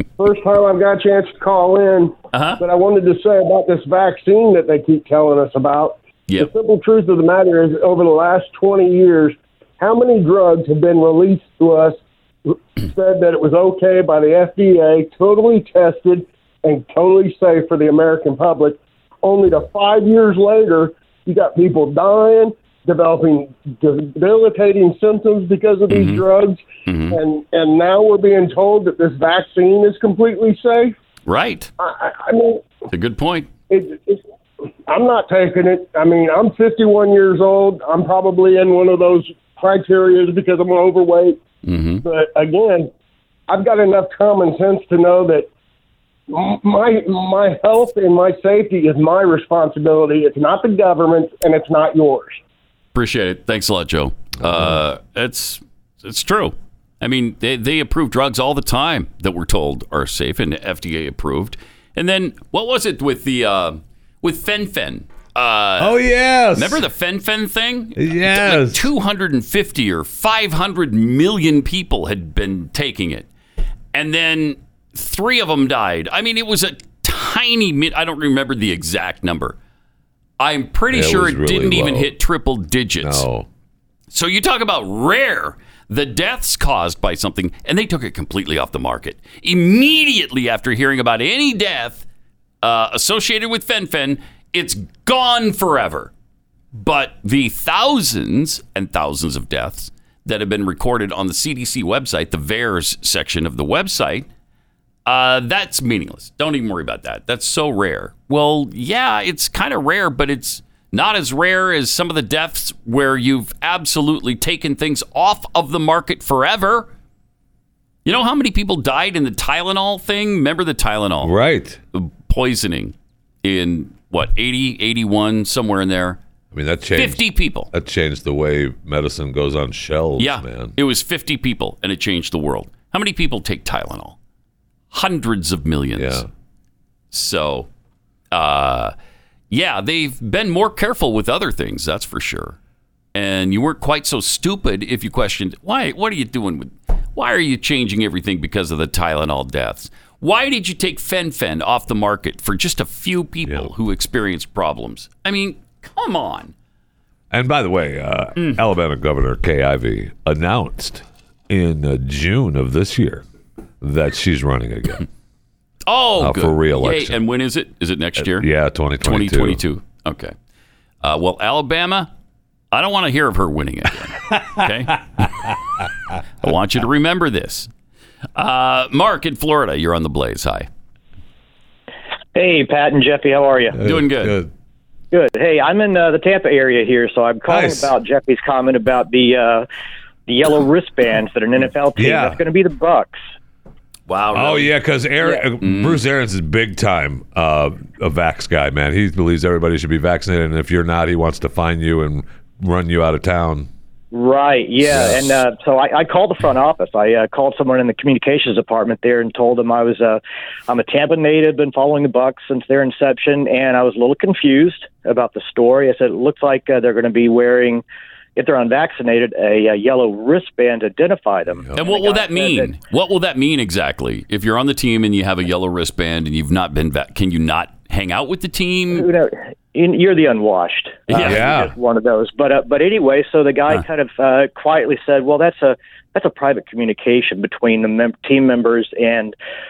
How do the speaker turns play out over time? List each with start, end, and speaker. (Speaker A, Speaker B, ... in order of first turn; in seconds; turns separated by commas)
Speaker A: 0.2-12.0, Speaker B: 2.3-2.6, Speaker A: 12.5-31.0, Speaker B: 25.9-26.2, Speaker B: 26.9-27.2, Speaker B: 31.3-31.7, Speaker A: 31.8-32.7, Speaker B: 32.9-33.5, Speaker A: 33.7-34.2, Speaker A: 34.9-41.4, Speaker B: 41.6-42.0, Speaker A: 42.0-42.9, Speaker A: 43.5-45.5, Speaker A: 46.3-52.4, Speaker B: 52.9-66.0, Speaker C: 54.4-54.8, Speaker C: 65.8-66.8, Speaker B: 66.5-73.3, Speaker C: 68.0-68.9, Speaker B: 73.9-79.6, Speaker B: 80.4-83.3, Speaker C: 80.9-82.1, Speaker C: 83.0-83.5, Speaker B: 84.1-92.1, Speaker B: 92.6-96.1, Speaker B: 96.7-104.3, Speaker B: 105.1-116.9, Speaker B: 118.0-121.3, Speaker C: 121.2-121.8, Speaker B: 121.9-126.2, Speaker C: 126.5-130.8, Speaker B: 127.0-127.7, Speaker B: 130.2-134.2, Speaker B: 134.9-136.2, Speaker C: 135.9-136.3, Speaker B: 137.1-137.7, Speaker B: 138.3-138.9, Speaker B: 139.5-142.6, Speaker B: 143.1-156.5, Speaker C: 157.3-163.2, Speaker B: 158.4-158.6, Speaker C: 163.8-165.1, Speaker B: 165.8-168.5, Speaker C: 166.2-167.2, Speaker C: 168.2-169.6, Speaker B: 169.0-170.3, Speaker B: 171.0-172.1, Speaker B: 172.7-175.0, Speaker C: 174.3-174.6, Speaker B: 176.4-177.7, Speaker B: 178.4-180.7, Speaker D: 182.3-183.8, Speaker C: 183.7-184.5, Speaker B: 183.8-184.4, Speaker D: 185.1-189.7, Speaker C: 187.5-187.9, Speaker D: 190.3-193.2, Speaker C: 192.0-192.4, Speaker B: 194.1-194.7, Speaker C: 194.3-203.7, Speaker B: 195.3-196.0, Speaker D: 204.1-217.8, Speaker C: 204.8-205.4, Speaker D: 218.4-222.8, Speaker C: 221.5-221.8, Speaker B: 221.7-229.1, Speaker D: 228.9-239.3, Speaker B: 231.1-231.6, Speaker C: 231.1-231.7